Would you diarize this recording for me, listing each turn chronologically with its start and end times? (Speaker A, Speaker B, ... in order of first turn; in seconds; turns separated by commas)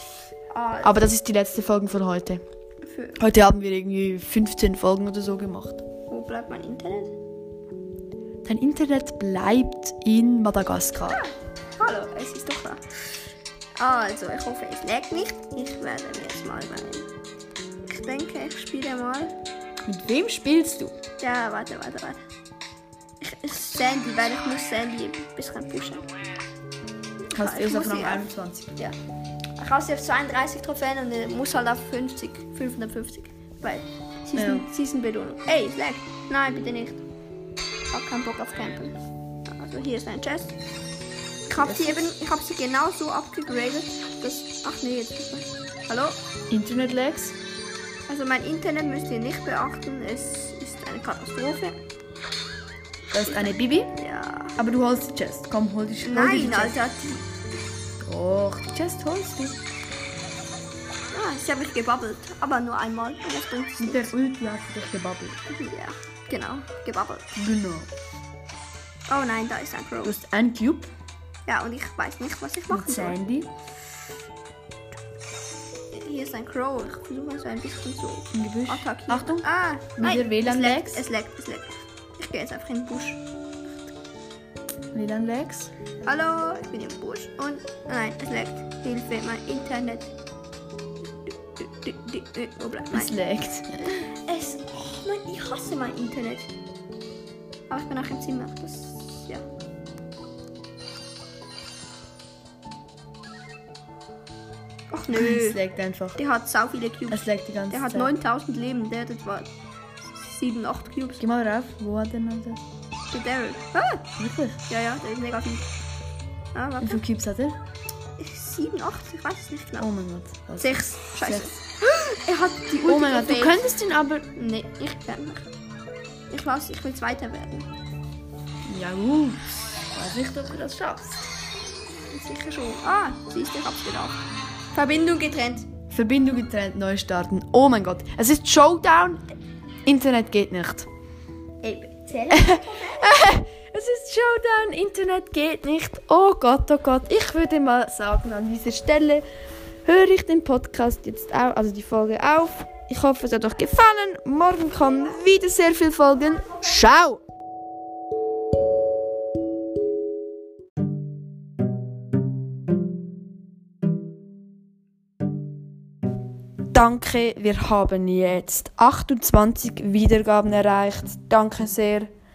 Speaker A: 0.5-1.1, Speaker B: 0.8-2.4, Speaker A: 2.8-3.3, Speaker B: 3.2-5.8, Speaker A: 6.1-7.1, Speaker B: 8.4-11.2, Speaker A: 11.1-12.8, Speaker A: 13.8-17.1, Speaker A: 17.8-19.3, Speaker B: 19.8-20.9, Speaker A: 21.2-22.2, Speaker A: 23.2-26.1, Speaker A: 27.3-28.9, Speaker B: 27.3-28.7, Speaker A: 29.6-37.0, Speaker B: 34.4-34.6, Speaker A: 37.9-40.5, Speaker A: 41.5-46.2, Speaker B: 41.6-42.0, Speaker B: 46.5-47.3, Speaker A: 48.1-51.8, Speaker B: 53.1-54.0, Speaker A: 53.1-54.6, Speaker B: 54.6-56.8, Speaker A: 56.0-57.2, Speaker B: 58.0-59.6, Speaker A: 61.1-64.1, Speaker B: 63.8-65.4, Speaker A: 65.5-67.3, Speaker B: 67.3-67.9, Speaker A: 69.1-70.2, Speaker B: 70.0-70.9, Speaker A: 71.5-73.2, Speaker B: 72.7-73.5, Speaker A: 75.9-83.9, Speaker B: 78.3-79.5, Speaker B: 80.0-81.0, Speaker B: 84.9-85.7, Speaker A: 86.0-90.1, Speaker A: 91.2-93.1, Speaker B: 92.9-93.9, Speaker A: 94.0-96.5, Speaker A: 97.7-99.4, Speaker A: 104.9-105.6, Speaker B: 105.1-106.2, Speaker A: 106.2-109.5, Speaker B: 107.1-108.1, Speaker A: 110.1-111.2, Speaker B: 111.2-112.6, Speaker A: 113.1-114.0, Speaker B: 114.2-114.6, Speaker A: 114.7-115.7, Speaker A: 116.5-117.0, Speaker B: 116.8-117.5, Speaker A: 118.2-119.9, Speaker B: 119.8-121.5, Speaker A: 120.6-123.6, Speaker B: 122.8-124.3, Speaker A: 124.3-125.5, Speaker A: 126.3-127.7, Speaker B: 128.6-131.2, Speaker A: 132.1-134.2, Speaker A: 134.7-135.7, Speaker B: 135.9-139.2, Speaker B: 139.8-140.9, Speaker A: 141.6-143.1, Speaker B: 142.3-149.2, Speaker B: 149.8-157.2, Speaker B: 166.7-172.1